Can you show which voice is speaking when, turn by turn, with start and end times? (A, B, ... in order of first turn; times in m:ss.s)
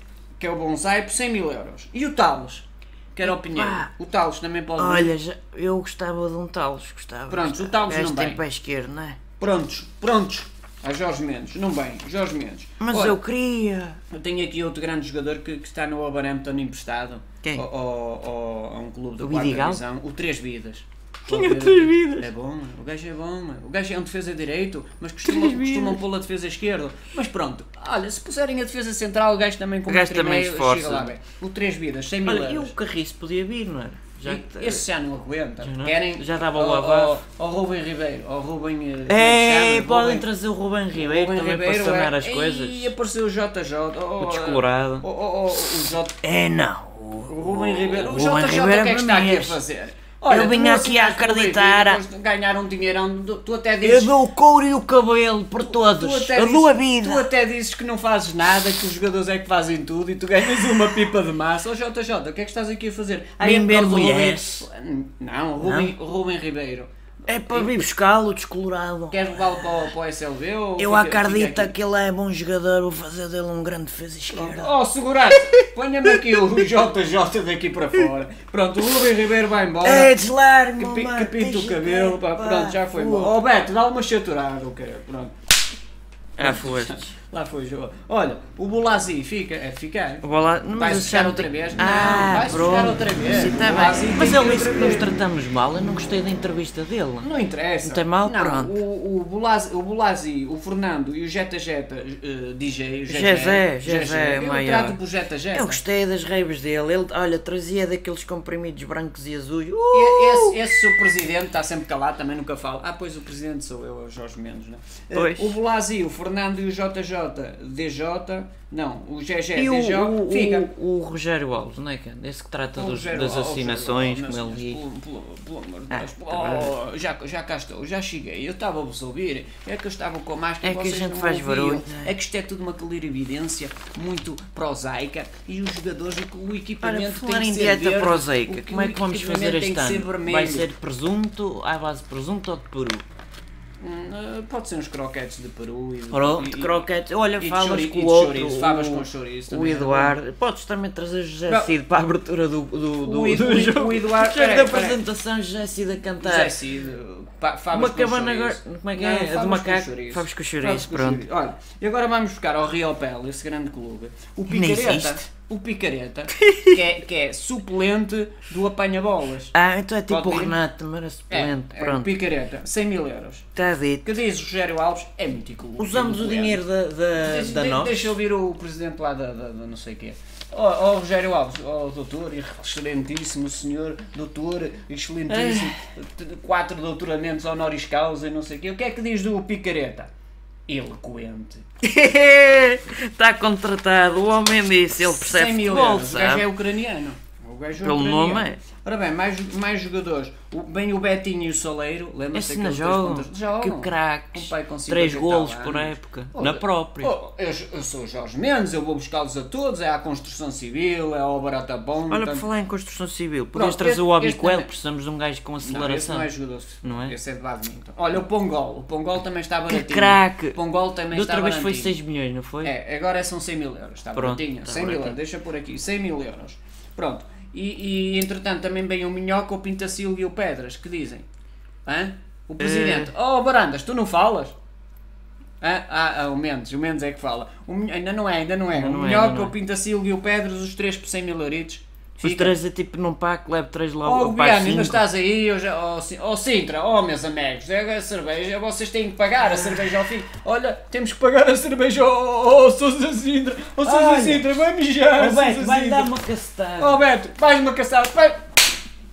0:00.4-0:05.1 A
0:03.2-0:03.9 B
0:04.8-0:09.2 B
0:07.3-0:08.4 A
0:09.4-0:13.2 A
0:12.8-0:14.0 B
0:14.1-0:32.7 A
0:19.2-0:19.8 B
0:21.3-0:22.3 B
0:25.2-0:26.0 B
0:29.9-0:31.1 B
0:32.2-0:34.8 B
0:34.2-0:40.3 A
0:35.6-0:37.2 B
0:39.1-0:42.9 B
0:40.9-0:46.2 A
0:44.2-0:45.1 B
0:45.7-0:49.6 B
0:47.3-0:54.1 A
0:50.3-0:52.0 B
0:53.8-0:57.3 B
0:55.6-1:07.8 A
1:03.4-1:04.7 B
1:05.6-1:05.9 B
1:07.3-1:09.9 B
1:09.1-1:11.7 A
1:10.8-1:14.7 B
1:14.3-1:20.2 A
1:15.3-1:16.7 B
1:19.8-1:23.4 B
1:20.8-1:25.3 A
1:26.4-1:27.1 B
1:26.4-1:35.2 A
1:30.2-1:37.3 B
1:37.2-1:45.8 A
1:37.8-1:38.7 B
1:43.1-1:45.0 B
1:45.5-1:50.6 B
1:49.9-2:00.7 A
1:55.1-1:55.6 B
1:59.6-2:04.8 B
2:02.8-2:20.7 A
2:05.9-2:06.7 B
2:10.6-2:12.1 B
2:16.8-2:23.0 B
2:23.8-2:26.8 A
2:26.1-2:36.6 B
2:27.4-2:30.2 A
2:31.5-2:31.8 A
2:33.0-2:35.0 A
2:36.2-2:49.5 A
2:37.7-2:41.2 B
2:44.5-2:45.2 B
2:46.4-2:46.8 B
2:49.5-2:52.1 B
2:50.1-2:50.6 A
2:51.3-2:53.5 A
2:53.6-2:54.1 B
2:54.0-2:56.6 A
2:55.8-2:58.2 B
2:57.2-3:10.1 A
3:05.3-3:05.7 B
3:10.7-3:11.6 A
3:11.8-3:16.5 B
3:15.1-3:32.4 A
3:17.8-3:18.6 B
3:22.3-3:27.1 B
3:32.1-3:36.3 B
3:33.5-3:34.7 A
3:35.6-3:42.0 A
3:36.8-3:37.2 B
3:39.7-3:40.6 B
3:41.1-3:42.7 B
3:42.6-3:51.3 A
3:44.1-3:45.2 B
3:51.9-3:54.6 A
3:52.6-3:53.1 B
3:55.6-4:02.6 A
3:58.7-3:59.5 B
4:02.2-4:05.1 B
4:04.0-4:16.1 A
4:13.8-4:14.6 B
4:15.2-4:17.0 B
4:16.8-4:18.6 A